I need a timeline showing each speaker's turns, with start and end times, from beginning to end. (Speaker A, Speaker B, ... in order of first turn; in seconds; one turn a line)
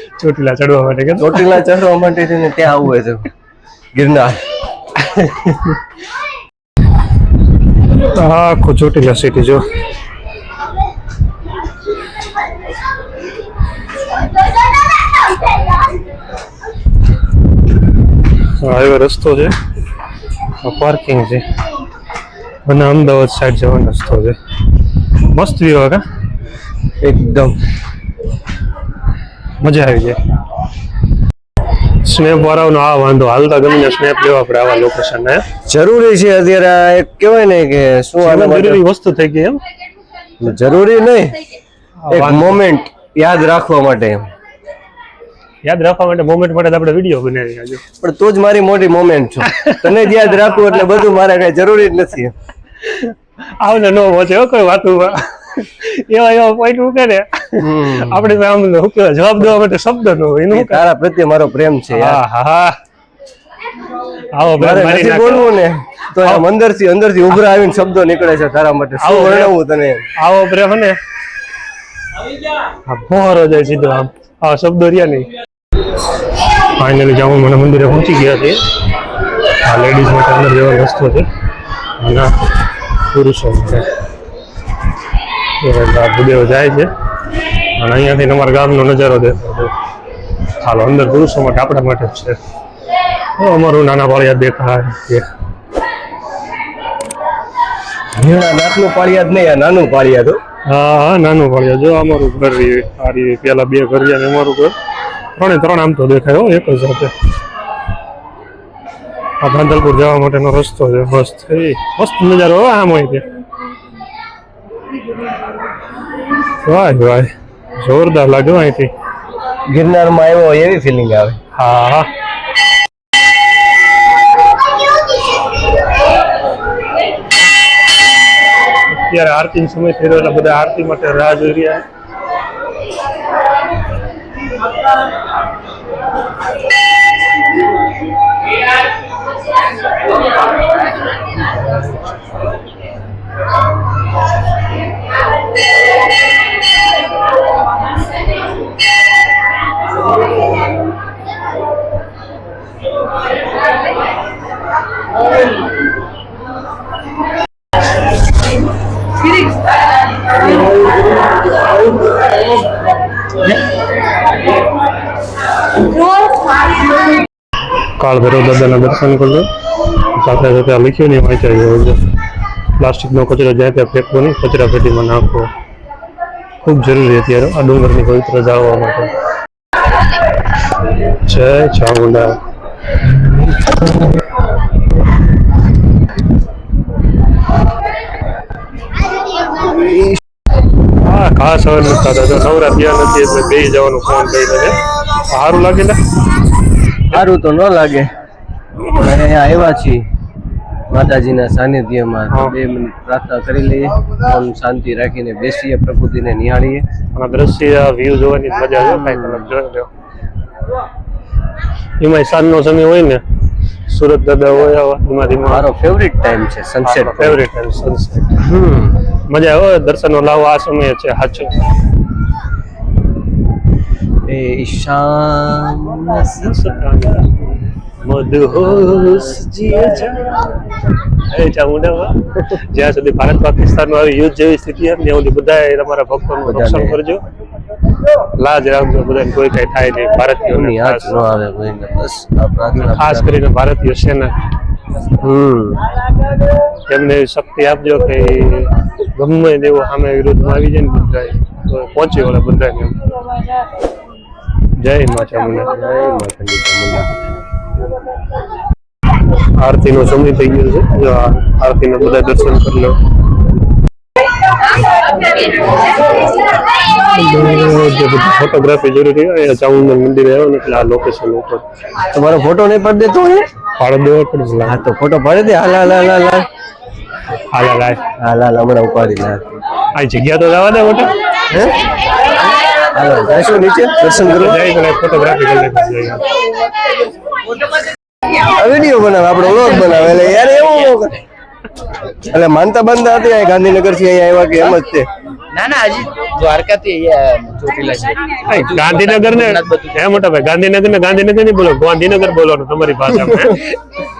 Speaker A: 0.2-1.6
Speaker B: 1.2-3.3
Speaker B: 3.9-4.4
Speaker A: 5.0-5.8
Speaker A: 8.0-9.6
Speaker A: 18.6-19.5
Speaker A: 20.6-21.4
Speaker A: 22.6-24.4
Speaker A: 25.3-26.0
Speaker B: 27.0-27.6
Speaker A: 29.6-30.2
Speaker A: 32.0-35.4
Speaker B: 35.6-38.8
Speaker A: 38.2-39.6
Speaker B: 40.4-41.4
Speaker A: 42.0-42.6
Speaker B: 42.1-44.3
Speaker A: 45.6-47.8
Speaker B: 48.0-52.3
Speaker A: 49.4-50.7
Speaker A: 52.8-60.8
Speaker B: 57.6-58.3
Speaker B: 60.5-62.2
Speaker A: 61.9-62.8
Speaker A: 64.3-65.5
Speaker B: 64.6-70.1
Speaker A: 69.0-69.5
Speaker A: 70.2-71.0
Speaker A: 72.8-75.3
Speaker A: 76.8-78.6
Speaker A: 79.6-81.3
Speaker A: 82.0-82.3
Speaker A: 83.1-83.9
Speaker A: 85.6-86.9
Speaker A: 87.8-89.7
Speaker A: 90.6-92.4
Speaker A: 93.4-95.3
Speaker B: 98.1-100.4
Speaker A: 100.7-104.7
Speaker A: 105.3-107.1
Speaker A: 109.4-113.2
Speaker A: 116.6-118.9
Speaker B: 119.7-121.4
Speaker A: 121.5-122.1
Speaker A: 128.9-131.8
Speaker A: 168.0-169.5
Speaker A: 170.1-172.0
Speaker A: 172.8-175.5
Speaker A: 176.6-179.1
Speaker A: 181.1-182.4
Speaker B: 189.6-190.2
Speaker A: 191.0-196.0
Speaker B: 197.1-198.1
Speaker B: 198.9-200.0
Speaker B: 200.9-206.8
Speaker A: 207.1-209.9
Speaker B: 208.8-209.5
Speaker A: 212.0-213.2
Speaker A: 213.9-215.6
Speaker B: 215.5-217.4
Speaker A: 216.8-218.4
Speaker B: 218.4-218.9
Speaker A: 219.3-221.6
Speaker B: 224.2-226.7
Speaker A: 226.4-227.4
Speaker A: 228.0-230.1
Speaker B: 229.7-230.1
Speaker A: 231.2-237.2
Speaker B: 236.4-237.0
Speaker A: 238.4-241.1
Speaker B: 240.5-243.4
Speaker A: 242.8-244.4
Speaker B: 245.2-245.8
Speaker A: 246.9-253.0
Speaker A: 254.8-255.7
Speaker B: 255.6-257.1
Speaker A: 259.6-263.0
Speaker A: 266.9-271.6
Speaker B: 272.1-273.5
Speaker A: 273.8-274.8
Speaker B: 274.6-276.5
Speaker A: 277.5-278.0
Speaker B: 278.2-279.5
Speaker A: 279.9-281.1
Speaker B: 281.5-281.7
Speaker B: 282.9-284.7
Speaker A: 284.1-286.2
Speaker B: 288.4-291.2
Speaker B: 292.2-295.1
Speaker C: 295.5-300.2
Speaker A: 298.4-303.6
Speaker B: 303.1-303.6